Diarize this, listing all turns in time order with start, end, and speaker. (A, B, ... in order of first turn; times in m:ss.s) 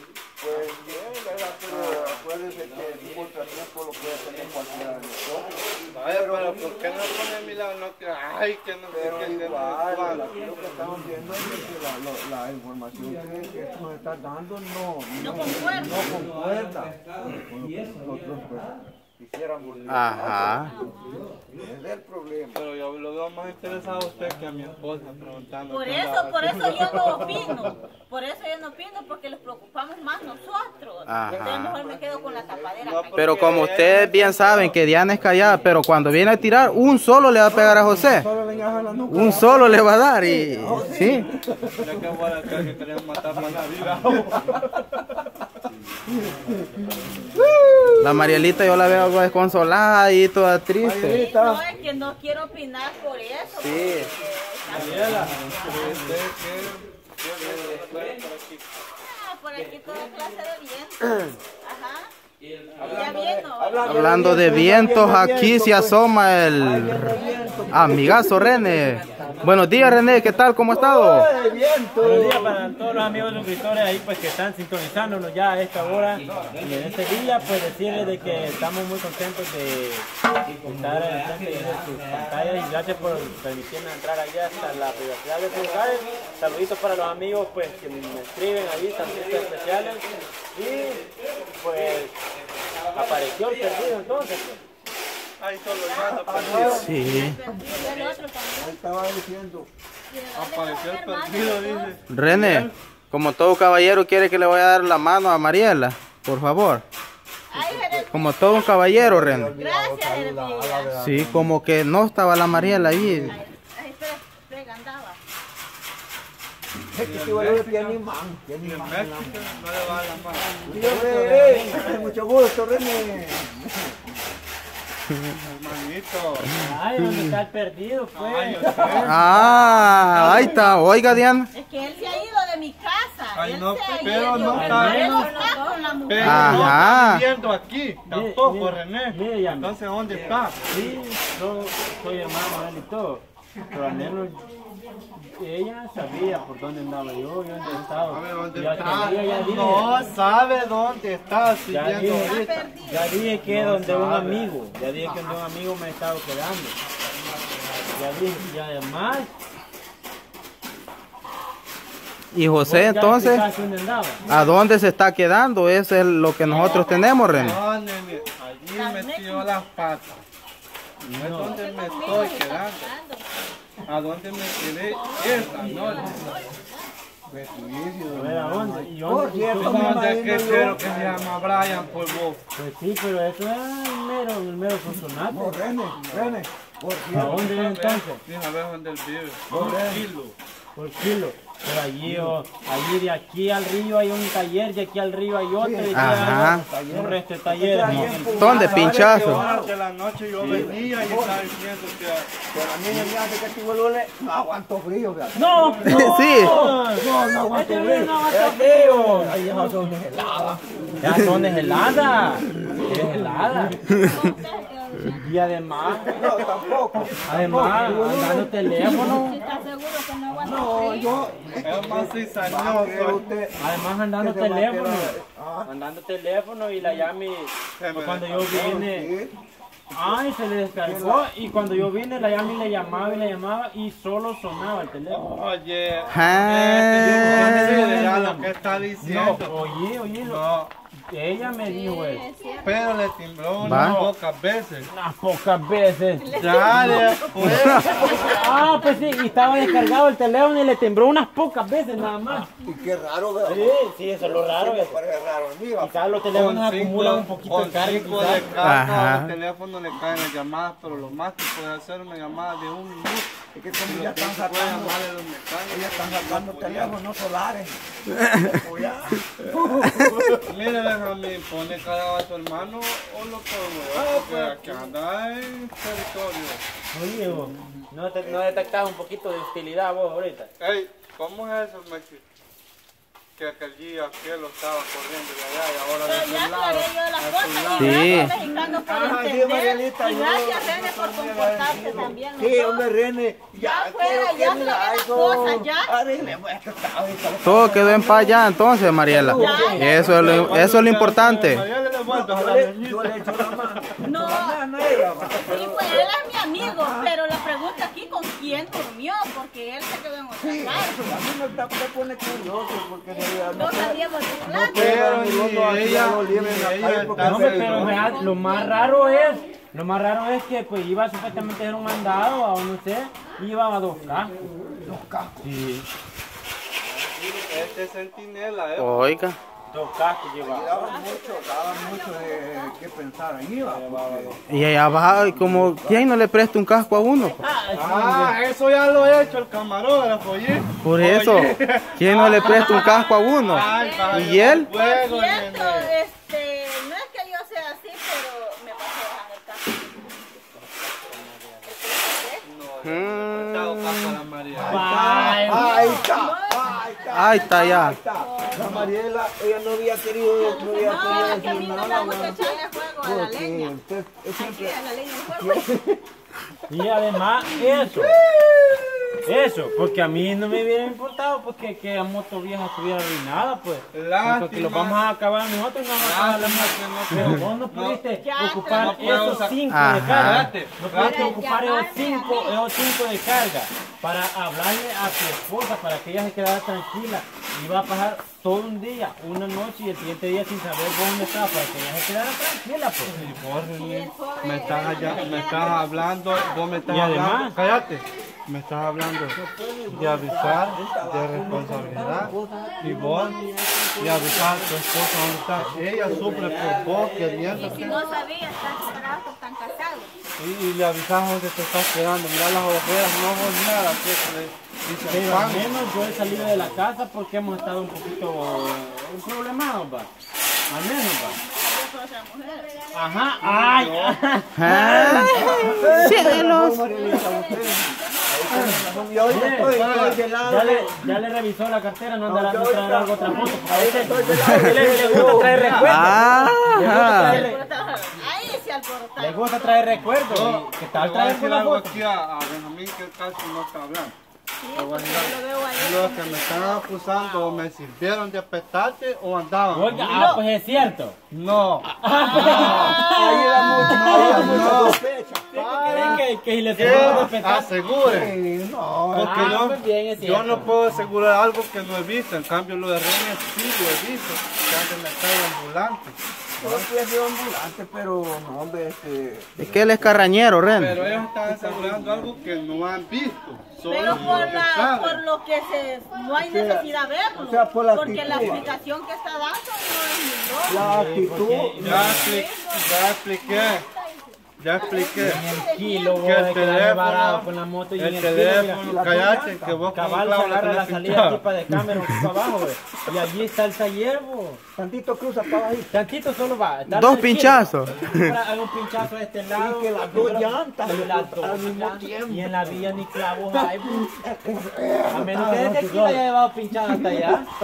0:00.4-0:06.6 A
0:01.6-0:02.3 B
0:05.9-0:10.3 B
0:08.9-0:22.6 A
0:15.2-0:16.1 C
0:19.9-0:20.7 D
0:20.6-0:21.2 E
0:22.5-0:27.7 B
0:25.7-0:33.5 C
0:31.1-0:31.8 D
0:31.3-0:32.9 A
0:32.8-0:34.8 B
0:33.2-0:38.3 D
0:37.5-0:42.7 A
0:39.1-0:41.2 D
0:41.8-0:44.7 B
0:44.1-0:44.6 A
0:46.1-0:46.6 A
0:47.3-0:48.7 A
0:48.0-0:51.2 D
0:50.8-0:51.6 A
0:51.0-0:55.9 C
0:53.5-0:54.1 D
0:54.7-0:55.8 F
0:54.7-0:58.8 B
0:59.0-1:02.1 C
1:02.8-1:09.4 A
1:02.8-1:04.7 C
1:03.8-1:11.3 D
1:06.9-1:07.8 C
1:10.6-1:12.6 A
1:11.4-1:11.6 C
1:12.0-1:32.2 F
1:32.9-1:34.6 F
1:35.4-1:37.0 B
1:35.8-1:38.7 C
1:35.9-1:37.8 A
1:36.8-1:37.4 D
1:37.5-1:38.6 E
1:38.6-1:39.7 A
1:40.1-1:42.0 E
1:40.3-1:42.7 B
1:42.1-1:46.8 D
1:47.5-1:48.7 C
1:47.5-1:48.1 A
1:48.1-1:49.5 D
1:48.9-1:51.5 A
1:49.6-1:51.0 C
1:51.0-1:53.4 D
1:52.6-1:53.3 A
1:53.1-1:55.2 C
1:56.9-2:00.0 A
1:57.0-1:58.0 B
1:58.6-2:00.6 B
2:00.6-2:02.2 F
2:00.6-2:04.2 A
2:05.4-2:06.5 B
2:06.6-2:09.3 F
2:08.1-2:09.2 B
2:08.6-2:09.2 A
2:09.0-2:11.5 D
2:10.0-2:10.8 B
2:11.5-2:16.8 C
2:13.3-2:15.1 B
2:14.3-2:16.6 E
2:14.5-2:15.4 F
2:16.0-2:20.6 B
2:16.2-2:17.2 D
2:18.1-2:19.7 F
2:20.7-2:24.4 F
2:25.1-2:30.0 F
2:27.7-2:32.7 B
2:31.7-2:36.8 F
2:32.2-2:33.1 C
2:33.4-2:34.5 B
2:35.0-2:35.4 A
2:37.9-2:39.3 F
2:42.3-2:43.5 D
2:42.6-2:44.2 F
2:44.3-2:47.6 D
2:46.4-2:50.2 B
2:46.5-2:47.3 C
2:48.7-2:49.5 C
2:51.0-2:52.9 B
2:51.1-2:51.6 F
2:51.4-2:53.2 E
2:51.8-2:52.3 C
2:53.9-2:56.4 B
2:54.8-2:56.7 E
2:55.1-2:56.6 C
2:57.3-3:01.3 A
2:58.1-3:00.1 F
2:59.6-3:02.4 B
3:02.5-3:05.6 F
3:05.2-3:07.4 A
3:05.9-3:06.4 B
3:07.1-3:08.2 F
3:07.2-3:10.3 B
3:09.5-3:10.1 A
3:10.7-3:18.2 F
3:12.1-3:12.3 B
3:15.6-3:19.8 A
3:15.9-3:16.6 D
3:17.8-3:19.4 D
3:17.9-3:22.3 B
3:20.4-3:21.5 A
3:20.4-3:20.7 F
3:22.5-3:32.0 A
3:25.3-3:29.8 F
3:25.5-3:26.0 B
3:25.8-3:26.5 D
3:31.0-3:33.8 F
3:32.6-3:33.1 A
3:33.9-3:35.3 E
3:35.2-3:36.1 F
3:36.0-3:39.2 A
3:37.2-3:39.4 F
3:38.8-3:41.2 E
3:40.3-3:43.5 A
3:41.6-3:43.2 B
3:43.6-3:49.1 F
3:44.2-3:45.7 A
3:47.8-3:48.6 B
3:48.5-3:49.4 A
3:49.9-3:55.3 F
3:50.8-3:51.3 A
3:55.1-3:59.6 B
3:56.0-3:56.4 A
3:56.1-3:58.1 D
3:57.0-3:57.5 A
3:57.4-3:58.5 F
3:59.0-4:00.4 F
4:00.2-4:00.7 B
4:01.1-4:02.2 F
4:01.6-4:03.0 E
4:02.3-4:02.7 C
4:02.6-4:04.9 B
4:03.6-4:04.1 F
4:03.6-4:04.0 D
4:04.9-4:06.3 F
4:06.2-4:08.7 C
4:06.4-4:08.5 B
4:07.4-4:07.9 D
4:07.9-4:08.4 A
4:08.0-4:12.5 F
4:12.6-4:16.2 A
4:13.4-4:15.0 F
4:15.8-4:18.5 F
4:16.3-4:27.0 B
4:18.6-4:19.4 D
4:23.5-4:25.0 A
4:25.7-4:30.4 A
4:28.2-4:28.5 D
4:30.5-4:36.6 B
4:34.0-4:34.6 F
4:36.9-4:40.5 F
4:37.3-4:38.8 A
4:40.6-4:42.2 B
4:43.4-4:48.7 B
4:46.0-4:52.9 C
4:47.8-4:48.3 D
4:48.6-4:50.5 A
4:49.5-4:52.1 B
4:51.3-5:00.1 A
4:53.6-4:55.9 C
4:57.4-5:01.7 D
4:59.2-5:00.6 C
4:59.8-5:03.9 B
5:02.0-5:07.1 A
5:04.0-5:04.6 C
5:05.4-5:11.0 C
5:10.4-5:18.2 A
5:13.5-5:14.9 C
5:14.7-5:18.2 B
5:17.1-5:24.4 F
5:17.9-5:19.4 C
5:18.1-5:18.8 E
5:24.8-5:25.5 A
5:25.4-5:25.9 F
5:27.4-5:29.3 B
5:28.8-5:29.4 D
5:29.7-5:31.0 F
5:30.4-5:36.1 A
5:30.8-5:32.5 C
5:31.0-5:31.3 E
5:33.6-5:34.4 F
5:34.5-5:37.4 D
5:37.4-5:38.4 F
5:37.7-5:45.9 B
5:40.8-5:44.7 D
5:42.6-5:50.2 C
5:50.8-5:51.7 F
5:51.6-5:52.4 C
5:52.4-5:54.9 B
5:52.8-5:54.2 D
5:54.5-6:06.0 A
5:54.6-5:55.9 F
5:55.1-5:56.9 C
5:57.1-5:58.0 D
5:57.6-5:58.9 E
6:00.4-6:03.8 C
6:00.4-6:02.5 E
6:04.3-6:05.7 C
6:06.7-6:08.1 F
6:07.5-6:09.1 A
6:09.2-6:33.1 F
6:13.9-6:15.0 B
6:16.0-6:18.0 B
6:18.2-6:19.6 C
6:18.7-6:19.6 B
6:19.7-6:20.5 D
6:20.2-6:21.3 B
6:21.0-6:22.4 E
6:21.2-6:22.5 C
6:33.0-6:39.4 B
6:33.6-6:36.7 C
6:36.9-6:37.6 F
6:39.3-6:44.8 A
6:39.9-6:48.0 B
6:45.5-6:46.8 A
6:46.1-6:47.7 F
6:47.5-6:48.2 E
6:47.7-6:50.1 C
6:50.4-6:56.8 B
6:55.1-7:00.1 F
7:00.7-7:01.4 F
7:01.2-7:03.0 C
7:02.9-7:05.0 F
7:03.4-7:04.2 B
7:04.6-7:06.8 D
7:04.7-7:05.5 C
7:05.1-7:11.0 A
7:05.9-7:08.0 E
7:08.5-7:08.8 E
7:09.3-7:09.8 F
7:09.6-7:10.2 B
7:10.4-7:17.6 F
7:12.2-7:15.7 A
7:14.4-7:17.4 D
7:15.4-7:16.1 B
7:16.9-7:20.0 C
7:19.2-7:22.0 F
7:20.2-7:24.1 B
7:24.6-7:27.6 C
7:24.7-7:30.3 B
7:29.7-7:31.2 F
7:30.0-7:30.4 C
7:31.3-7:33.0 B
7:31.9-7:34.9 F
7:32.0-7:34.2 C
7:32.3-7:36.2 A
7:34.0-7:35.0 B
7:35.5-7:38.4 B
7:35.5-7:37.7 F
7:36.8-7:37.4 A
7:38.0-7:39.7 A
7:39.1-7:46.9 B
7:39.2-7:40.7 F
7:46.6-7:50.2 A
7:49.6-7:51.0 D
7:50.7-7:55.2 B
7:51.0-7:52.2 A
7:53.8-8:00.9 C
7:56.4-7:58.7 A
7:58.0-7:58.7 F
8:00.6-8:02.2 A
8:00.7-8:02.4 F
8:01.8-8:03.9 B
8:02.3-8:02.6 C
8:02.5-8:04.4 E
8:04.6-8:05.4 B
8:04.7-8:06.2 C
8:05.1-8:14.6 F
8:06.2-8:11.4 B
8:08.8-8:09.7 A
8:14.8-8:15.9 A
8:15.9-8:24.1 F
8:16.9-8:18.4 D
8:19.5-8:26.2 A
8:25.1-8:27.5 F
8:27.0-8:27.2 A